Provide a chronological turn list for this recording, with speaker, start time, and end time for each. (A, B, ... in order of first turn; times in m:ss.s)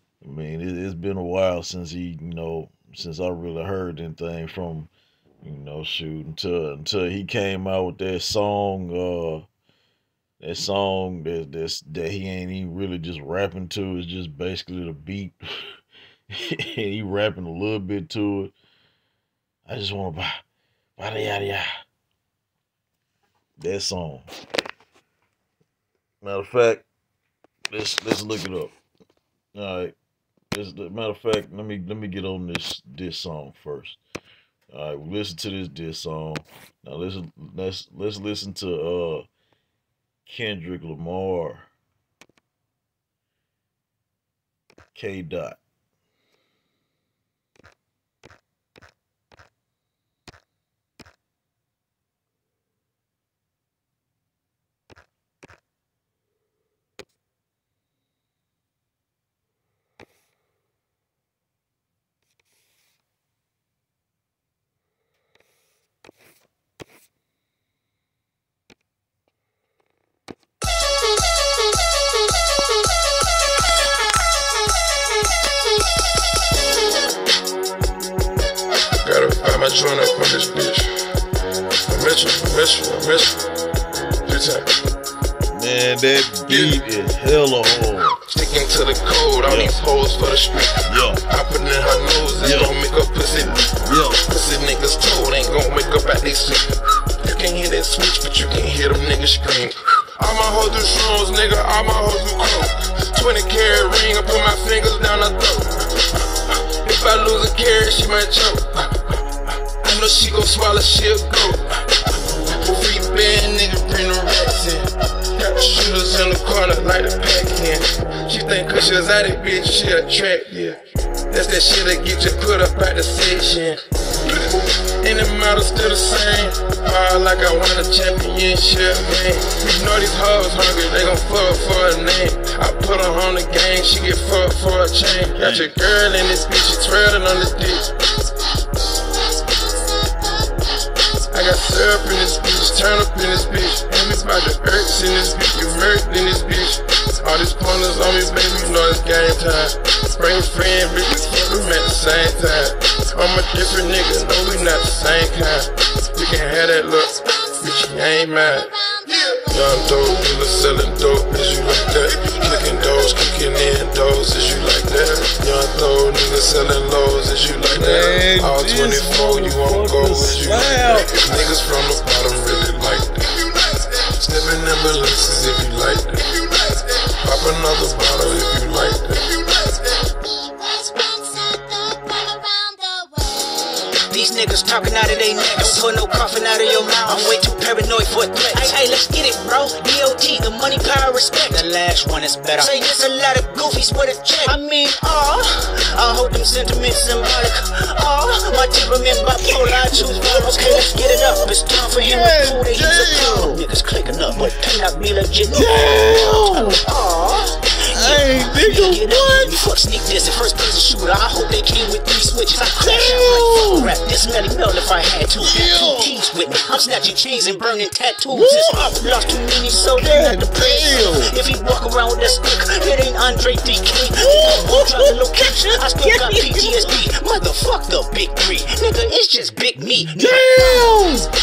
0:00.2-0:04.9 A
0:05.4-0:09.5 A
0:10.4-0:15.4 A
0:16.3-0:18.5 A
0:19.7-0:20.4 A
0:21.0-0:21.7 A
0:23.6-0:24.3 A
0:26.2-0:26.8 A
0:27.7-0:28.7 A
0:29.6-0:30.0 A
0:30.5-0:34.0 A
0:34.7-0:39.3 A
0:40.3-0:41.7 A
0:45.0-0:45.6 A
1:19.0-1:20.9 B
1:21.9-1:23.4 B
1:24.2-1:24.7 B
1:25.5-1:28.2 A
1:26.5-1:26.8 B
1:28.3-1:33.7 B
1:29.4-1:29.8 A
1:30.8-1:31.2 A
1:32.4-1:32.8 A
1:33.8-1:34.2 A
1:34.2-1:49.2 B
1:49.8-1:51.8 B
1:52.5-2:00.8 B
2:01.3-2:17.9 B
2:15.4-2:15.7 A
2:21.3-2:53.2 B
2:47.7-2:51.2 A
2:54.2-2:59.3 B
3:04.1-3:51.0 C
3:19.4-3:23.6 A
3:25.5-3:26.8 A
3:27.9-3:29.6 A
3:32.6-3:34.0 A
3:35.4-3:36.3 A
3:38.3-3:39.0 A
3:39.9-3:41.4 A
3:44.1-3:47.0 A
3:49.9-3:51.3 A